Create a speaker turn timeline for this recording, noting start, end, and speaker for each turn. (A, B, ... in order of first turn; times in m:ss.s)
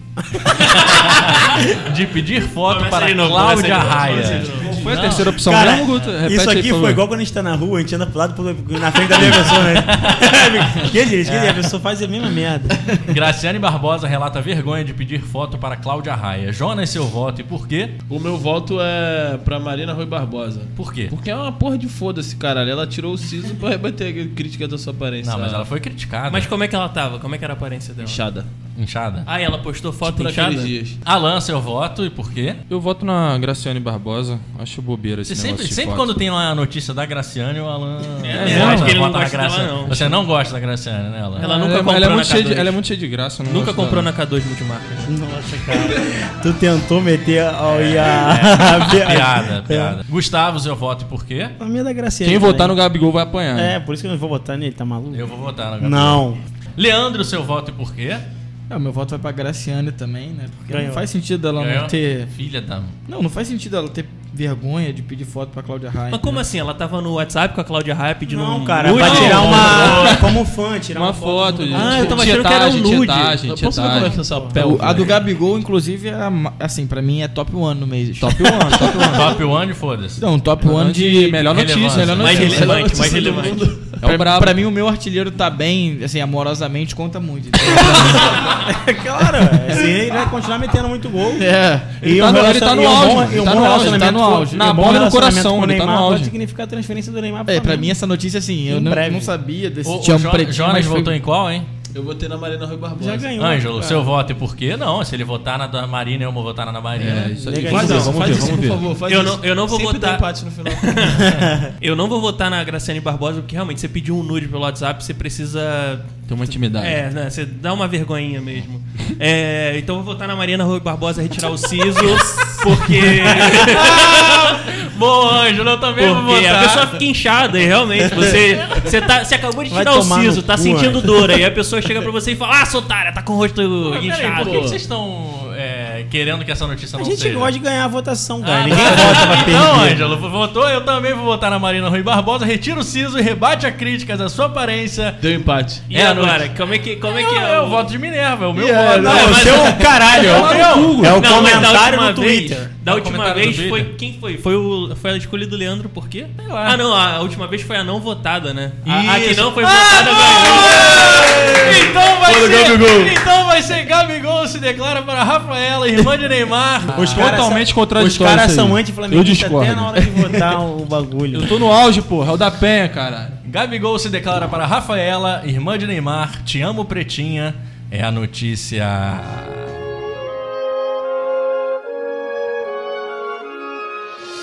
0:00.3-0:01.2 A
0:00.4-0:06.0 B
0:02.7-0:05.2 C
0:04.6-0:07.0 D
0:05.4-0:12.8 A
0:09.3-0:10.2 B
0:11.2-0:11.7 B
0:13.0-0:18.0 B
0:18.1-0:25.7 E
0:20.8-0:21.1 B
0:25.2-0:26.5 B
0:26.3-0:28.2 C
0:28.0-0:28.5 E
0:28.8-0:29.3 B
0:29.2-0:30.7 C
0:30.0-0:31.0 E
0:31.0-0:32.6 B
0:32.7-0:36.1 D
0:35.2-0:41.5 B
0:38.2-0:40.2 C
0:38.3-0:39.0 D
0:41.4-0:44.0 D
0:41.4-0:42.7 C
0:43.4-0:45.1 C
0:45.0-0:50.0 A
0:47.7-0:51.5 B
0:51.6-0:52.8 A
0:52.2-0:53.7 D
0:53.5-0:56.4 A
0:55.1-0:56.2 B
0:56.8-0:58.2 B
0:58.7-1:02.3 F
1:00.7-1:01.0 A
1:01.6-1:02.9 B
1:03.1-1:06.4 F
1:06.1-1:10.1 C
1:08.2-1:12.3 A
1:09.0-1:10.1 B
1:09.0-1:10.3 D
1:10.9-1:15.1 D
1:11.7-1:13.4 C
1:13.4-1:15.1 E
1:14.2-1:14.5 A
1:14.5-1:19.3 F
1:18.2-1:19.4 D
1:18.9-1:20.2 B
1:20.2-1:28.6 F
1:20.6-1:22.6 D
1:21.4-1:22.7 B
1:22.2-1:23.6 C
1:22.5-1:24.0 E
1:24.0-1:24.6 D
1:28.4-1:37.9 A
1:31.3-1:31.9 F
1:32.0-1:36.3 D
1:33.2-1:34.6 F
1:37.4-1:41.2 F
1:38.7-1:39.3 A
1:39.8-1:41.7 B
1:41.9-1:43.3 E
1:43.0-1:44.1 A
1:43.4-1:47.6 B
1:47.0-1:48.9 D
1:47.4-1:48.5 A
1:47.7-1:51.3 E
1:49.0-2:04.4 C
1:56.3-1:57.0 D
2:03.3-2:07.0 B
2:06.0-2:14.6 C
2:08.0-2:08.9 B
2:09.7-2:11.2 A
2:13.8-2:17.5 B
2:14.4-2:14.8 E
2:17.0-2:20.2 A
2:18.4-2:25.2 B
2:18.9-2:19.2 C
2:25.2-2:25.9 E
2:25.9-2:26.5 B
2:25.9-2:27.9 C
2:27.0-2:31.7 B
2:28.5-2:29.7 E
2:29.0-2:32.7 A
2:29.0-2:30.6 C
2:30.3-2:31.6 D
2:31.1-2:41.9 C
2:32.8-2:33.9 B
2:36.4-2:36.8 B
2:38.8-2:47.4 B
2:40.7-2:43.2 E
2:46.9-2:51.5 A
2:47.0-2:50.6 D
2:51.3-2:53.3 D
2:53.4-2:59.8 B